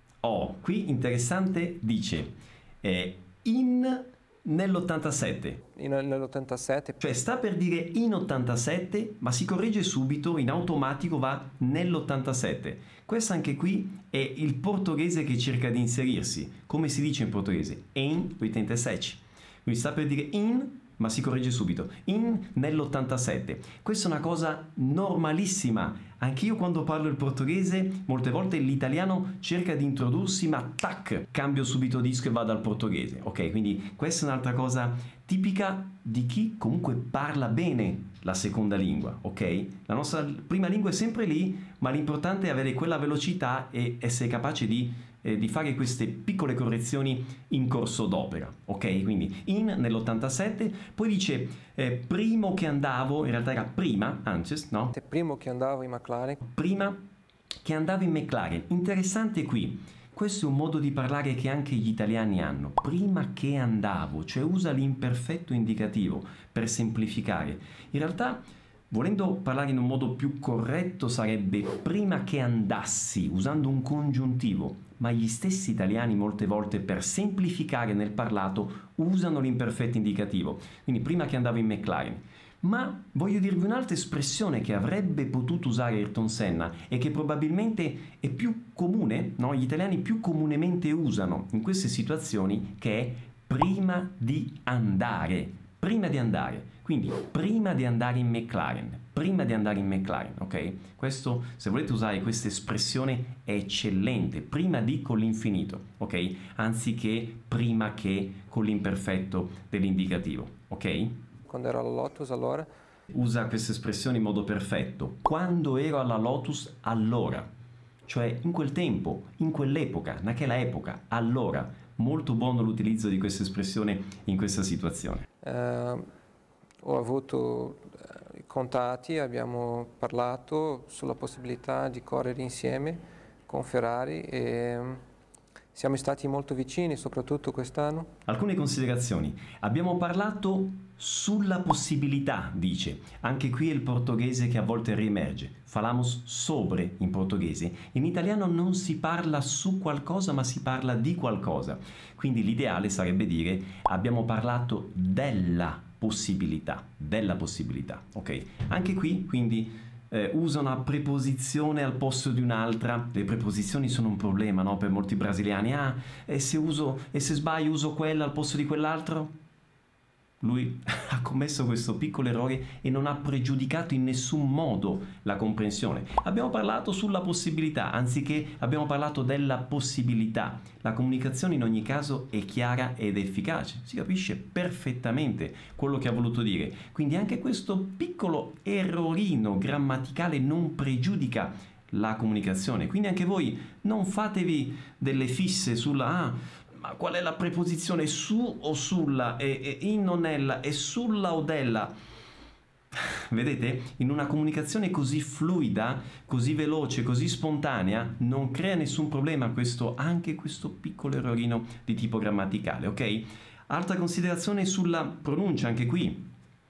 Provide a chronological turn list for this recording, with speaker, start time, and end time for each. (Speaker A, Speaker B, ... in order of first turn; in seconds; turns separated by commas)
Speaker A: 0.2-5.6, Speaker B: 5.7-7.0, Speaker A: 7.0-54.9, Speaker B: 54.9-56.4, Speaker A: 56.4-57.0, Speaker A: 57.6-111.2, Speaker B: 111.5-112.7, Speaker A: 113.1-117.5, Speaker A: 118.1-125.3, Speaker B: 125.4-126.0, Speaker B: 126.8-135.0, Speaker B: 135.7-138.1, Speaker A: 138.3-169.3, Speaker A: 170.4-201.9, Speaker A: 202.9-216.3